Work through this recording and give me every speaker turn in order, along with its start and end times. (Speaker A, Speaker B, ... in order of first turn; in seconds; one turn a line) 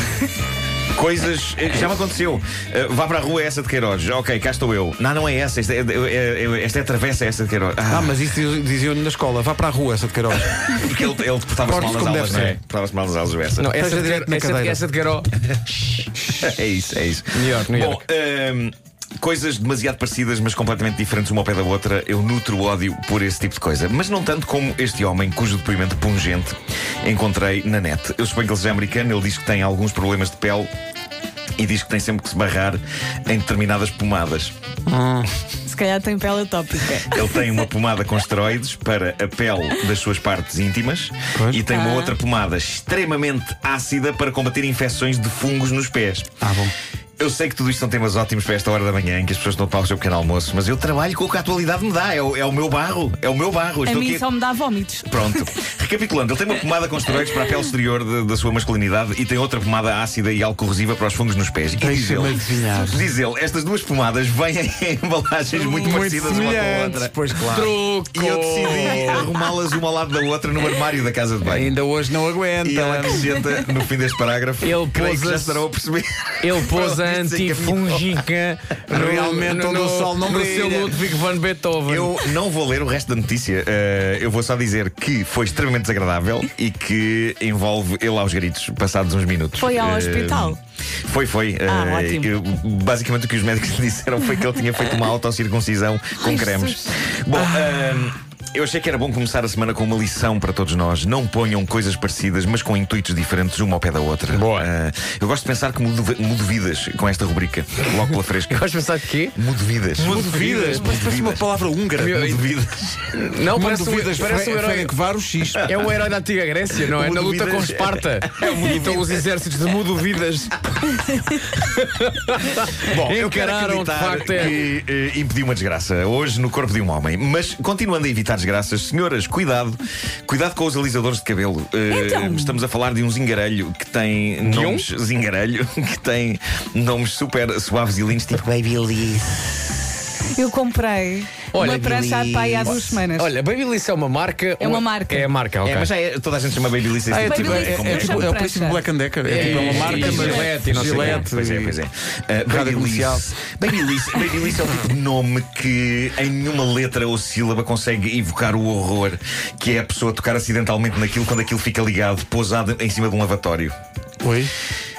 Speaker A: 0.9-8.2
Speaker B: 7.9-10.9
Speaker A: 10.6-13.7
Speaker B: 11.6-12.5
Speaker C: 12.3-12.6
Speaker C: 13.6-15.4
Speaker B: 13.7-14.8
Speaker A: 16.4-30.7
Speaker C: 17.3-18.0
Speaker A: 31.6-34.5
Speaker B: 34.9-35.3
Speaker D: 35.6-37.4
Speaker A: 37.1-46.3
Speaker B: 41.4-41.6
Speaker D: 41.7-42.1
Speaker B: 46.4-46.7
Speaker A: 47.2-54.2
Speaker D: 53.8-55.4
Speaker A: 55.1-67.2
Speaker B: 61.8-63.0
Speaker B: 65.5-67.7
Speaker C: 66.0-66.9
Speaker C: 67.4-69.3
Speaker A: 68.1-71.7
Speaker B: 71.4-73.4
Speaker A: 72.6-78.2
Speaker C: 74.6-75.6
Speaker C: 76.4-82.2
Speaker B: 78.9-81.0
Speaker A: 81.8-108.7
Speaker D: 89.6-90.6
Speaker D: 91.7-92.3
Speaker D: 96.2-96.8
Speaker C: 104.3-104.7
Speaker C: 108.5-109.3
Speaker A: 109.3-111.4
Speaker B: 110.0-112.6
Speaker C: 110.0-110.9
Speaker C: 112.0-112.4
Speaker A: 112.3-113.0
Speaker C: 113.1-115.0
Speaker B: 113.5-115.7
Speaker A: 115.4-115.8
Speaker C: 115.6-124.6
Speaker A: 116.8-119.3
Speaker A: 122.8-139.6
Speaker D: 131.9-132.6
Speaker C: 134.4-134.8
Speaker D: 140.3-143.3
Speaker C: 141.5-145.9
Speaker D: 144.6-145.3
Speaker A: 145.6-148.3
Speaker B: 147.1-151.8
Speaker D: 147.2-148.8
Speaker C: 149.2-151.3
Speaker A: 149.5-163.7
Speaker D: 149.7-150.6
Speaker B: 152.4-153.2
Speaker B: 164.2-164.5